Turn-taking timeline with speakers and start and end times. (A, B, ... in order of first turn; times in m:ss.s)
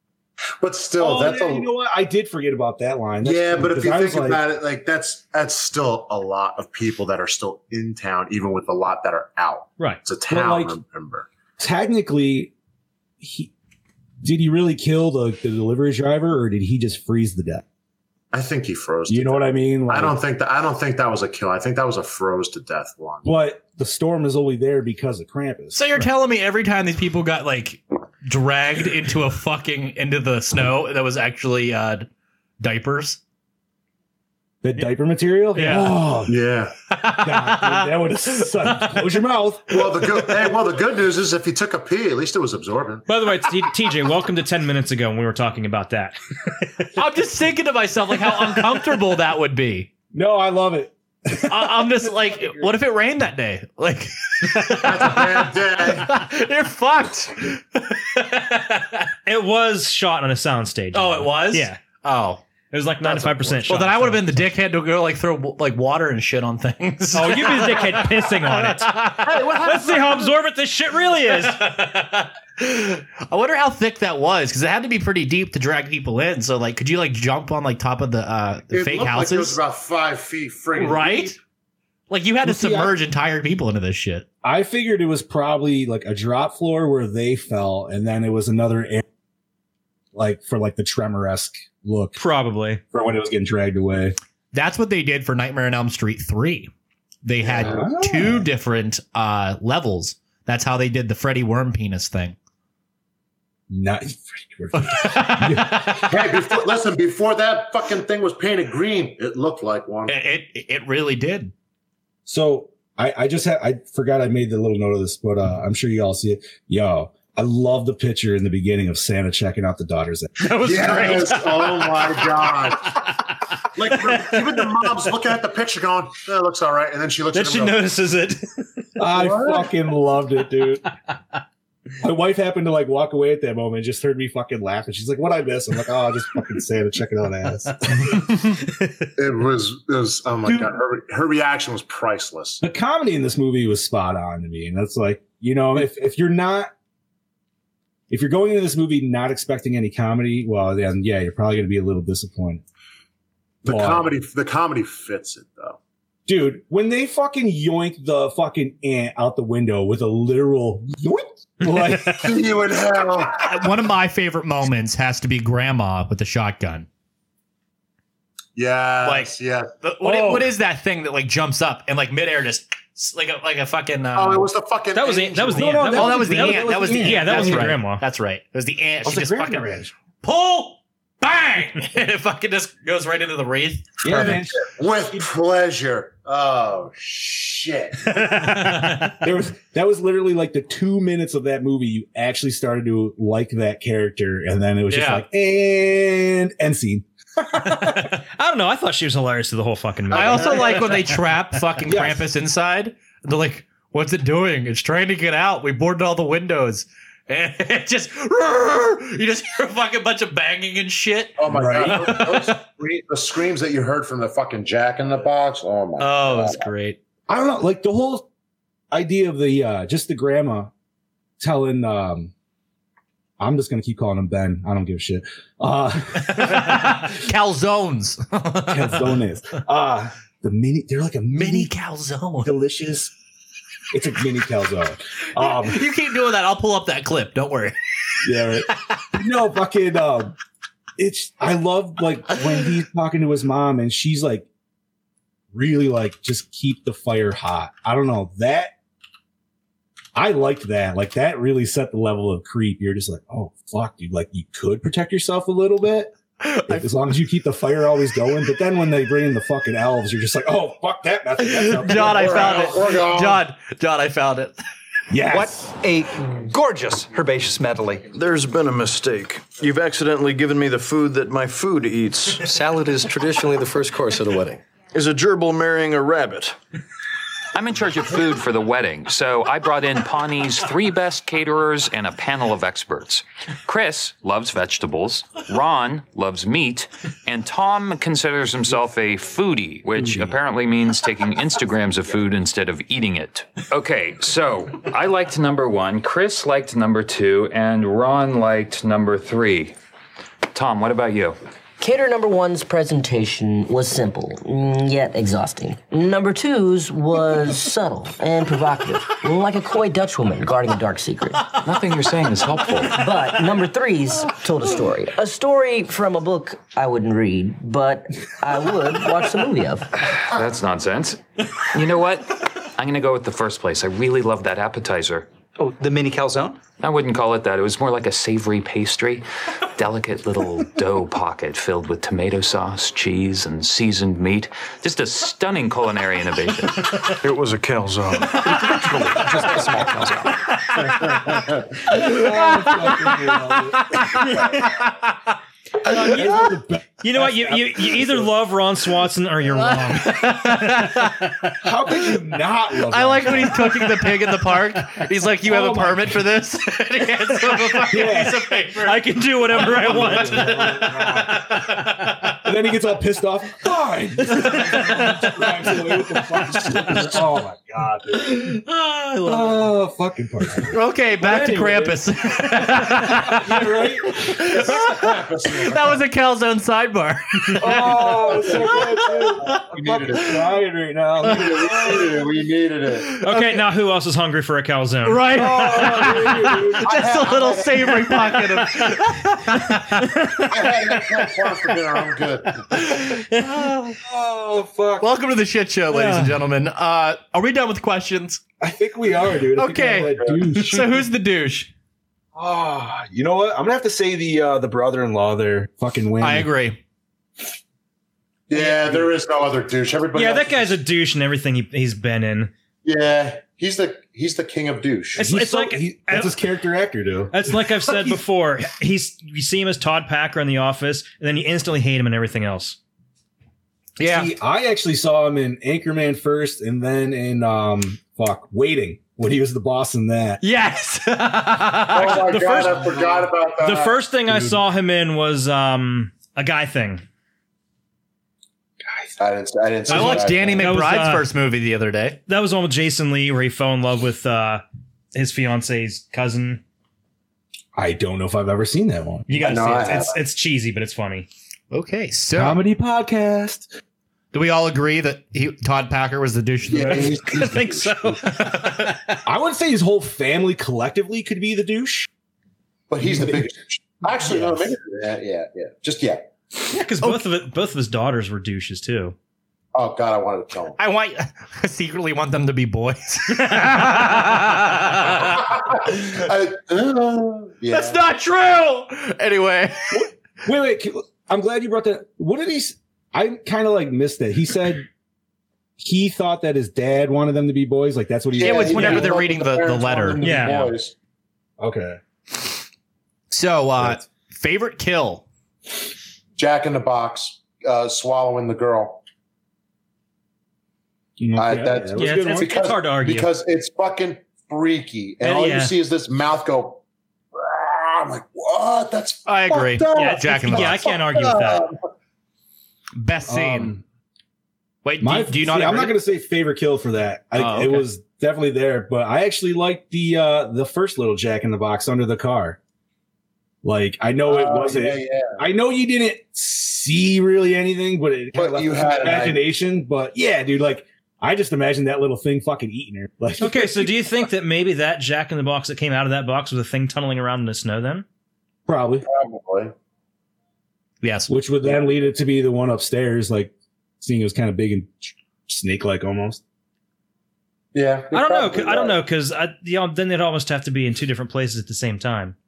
0:00.6-0:01.7 A
0:01.0-0:04.4 B
0:03.2-0:11.3 A
0:10.3-0:10.7 B
0:11.6-0:12.5 B
0:13.2-0:13.5 B
0:14.2-0:17.6 B
0:18.3-0:23.2 A
0:19.1-0:20.2 B
0:23.2-0:25.8 B
0:25.7-0:32.1 C
0:32.6-0:33.2 C
0:34.6-0:36.4 B
0:35.6-0:35.9 C
0:35.6-0:35.8 D
0:36.3-0:36.7 A
0:36.9-0:39.0 C
0:37.2-0:40.0 B
0:39.7-0:43.0 A
0:43.1-0:46.8 D
0:47.0-0:49.9 C
0:50.1-0:52.7 B
0:51.5-0:59.1 C
0:54.8-0:56.1 A
0:59.2-1:01.8 D
1:00.9-1:02.4 C
1:02.7-1:04.4 D
1:03.6-1:09.7 C
1:07.1-1:09.0 D
1:09.3-1:10.2 A
1:09.5-1:11.6 D
1:11.3-1:19.6 C
1:18.7-1:21.4 A
1:20.8-1:21.4 C
1:22.1-1:24.2 C
1:22.4-1:23.0 B
1:24.4-1:29.0 B
1:30.1-1:32.2 B
1:32.2-1:32.8 D
1:32.9-1:34.2 B
1:34.5-1:36.7 C
1:37.2-1:42.4 C
1:37.4-1:37.8 A
1:37.6-1:38.5 B
1:43.7-1:46.0 B
1:44.8-1:46.1 C
1:46.0-1:50.2 A
1:50.1-1:51.5 C
1:52.2-2:00.5 B
2:00.4-2:02.0 D
2:00.6-2:03.0 A
2:03.7-2:07.8 A
2:07.3-2:08.6 D
2:09.0-2:10.8 B
2:09.1-2:09.7 A
2:12.0-2:18.2 B
2:19.2-2:22.6 A
2:20.4-2:20.7 B
2:22.6-2:26.7 B
2:28.1-2:32.6 B
2:33.6-2:35.8 A
2:33.6-2:34.1 B
2:36.3-2:42.4 B
2:42.1-2:43.4 A
2:43.4-2:46.9 C
2:48.6-2:49.7 A
2:49.0-2:54.5 C
2:50.0-2:50.5 B
2:54.1-2:55.8 A
2:54.9-2:58.0 D
2:55.5-2:57.8 B
2:55.9-2:59.7 C
2:59.0-2:59.9 B
3:00.2-3:03.9 C
3:04.0-3:05.2 B
3:04.0-3:08.3 A
3:08.5-3:09.1 C
3:08.6-3:09.1 D
3:09.2-3:18.0 B
3:14.9-3:15.2 C
3:17.9-3:21.0 D
3:20.1-3:32.5 C
3:20.2-3:20.4 A
3:21.8-3:22.2 B
3:31.4-3:36.7 A
3:31.4-3:32.4 B
3:36.0-3:37.0 C
3:37.3-3:38.3 B
3:38.9-3:40.7 B
3:41.4-3:42.3 B
3:43.4-3:47.1 B
3:46.3-3:49.2 C
3:48.7-3:51.7 B
3:51.3-3:52.5 C
3:52.4-3:53.1 B
3:53.9-3:55.8 B
3:55.4-3:58.2 C
3:58.2-4:00.3 B
4:01.0-4:04.5 B
4:05.5-4:08.7 B
4:10.1-4:16.1 B
4:16.4-4:16.9 C
4:16.7-4:22.6 B
4:21.4-4:24.6 C
4:21.9-4:23.4 A
4:25.1-4:25.7 B
4:25.2-4:36.5 E
4:28.2-4:32.2 F
4:34.9-4:36.5 F
4:37.5-4:59.8 G
5:00.5-5:01.4 G
5:01.8-5:11.5 H
5:11.5-5:13.0 G
5:12.9-5:19.9 H
5:20.0-5:25.3 G
5:25.6-5:26.6 E
5:26.8-5:36.9 G
5:37.2-5:39.1 F
5:37.3-5:40.2 E
5:39.4-5:39.6 B
5:41.2-5:41.5 A
5:41.9-5:44.6 B
5:42.5-5:43.3 C
5:43.9-5:44.9 C
5:45.8-5:48.3 B
5:47.0-5:51.5 D
5:49.5-5:51.3 C
5:51.6-5:54.0 B
5:52.9-5:59.0 C
5:55.4-5:56.2 B
5:57.9-5:58.5 B
5:58.8-6:02.3 D
5:59.5-6:01.5 B
5:59.6-6:00.5 C
6:01.4-6:01.9 C
6:02.4-6:08.6 B
6:04.4-6:05.4 C
6:06.6-6:07.2 C
6:08.2-6:09.7 C
6:09.2-6:14.4 B
6:10.7-6:19.6 C
6:14.4-6:16.0 A
6:17.6-6:22.3 B
6:18.0-6:20.5 A
6:21.2-6:23.2 A
6:23.1-6:23.6 C
6:23.2-6:26.1 D
6:25.0-6:30.4 C
6:25.3-6:27.0 B
6:26.8-6:28.4 A
6:30.0-6:30.3 D
6:30.5-6:32.7 A
6:32.7-6:34.0 C
6:34.0-6:35.1 B
6:35.0-6:38.4 C
6:35.9-6:36.4 D
6:38.6-6:41.0 B
6:39.6-6:41.7 C
6:42.3-6:46.5 B
6:46.2-6:46.8 C
6:48.5-6:50.7 A
6:48.5-6:49.1 B
6:50.1-6:52.5 D
6:52.8-6:55.2 A
6:55.2-6:56.3 D
6:55.2-6:58.2 B
6:57.3-7:02.8 D
7:04.0-7:04.3 C
7:04.0-7:10.4 B
7:10.4-7:12.8 C
7:11.9-7:14.6 A
7:12.1-7:13.1 D
7:13.6-7:17.0 D
7:19.2-7:20.7 A
7:19.9-7:22.2 C
7:19.9-7:21.3 D
7:22.3-7:24.6 D
7:25.1-7:26.6 D
7:27.7-7:29.3 B
7:29.3-7:31.3 D
7:29.3-7:30.2 A
7:31.7-7:32.6 C
7:32.3-7:33.7 B
7:34.3-7:37.3 C
7:36.7-7:38.2 A
7:36.9-7:37.3 B
7:37.3-7:39.0 D
7:38.3-7:38.9 C
7:39.2-7:42.1 B
7:42.9-7:46.3 A
7:43.0-7:43.4 B
7:44.2-7:44.7 B
7:46.7-7:49.1 D
7:49.7-7:50.8 A
7:50.8-7:56.0 C
7:55.3-7:58.0 A
7:57.7-8:00.0 C
7:59.9-8:04.9 B
8:05.8-8:09.1 B
8:08.4-8:10.9 A
8:08.4-8:10.6 C
8:10.2-8:10.7 D
8:11.6-8:12.0 B
8:13.3-8:15.2 C
8:16.4-8:19.0 A
8:21.2-8:22.6 B
8:21.4-8:26.8 A
8:22.0-8:23.3 D
8:25.2-8:25.7 D
8:27.3-8:29.3 A
8:29.2-8:30.8 C
8:29.5-8:30.9 B
8:29.9-8:31.6 D
8:31.0-8:31.8 A
8:33.0-8:33.7 C
8:33.2-8:33.8 B
8:34.8-8:36.0 C
8:35.0-8:42.6 B
8:37.3-8:37.8 C
8:43.6-8:54.1 B
8:44.2-8:45.4 A
8:48.3-8:49.4 A
8:53.4-8:58.0 D
8:58.7-8:59.0 B
8:59.1-8:59.7 A
9:01.0-9:01.3 C
9:01.3-9:06.4 B
9:07.7-9:09.0 A
9:08.1-9:12.3 D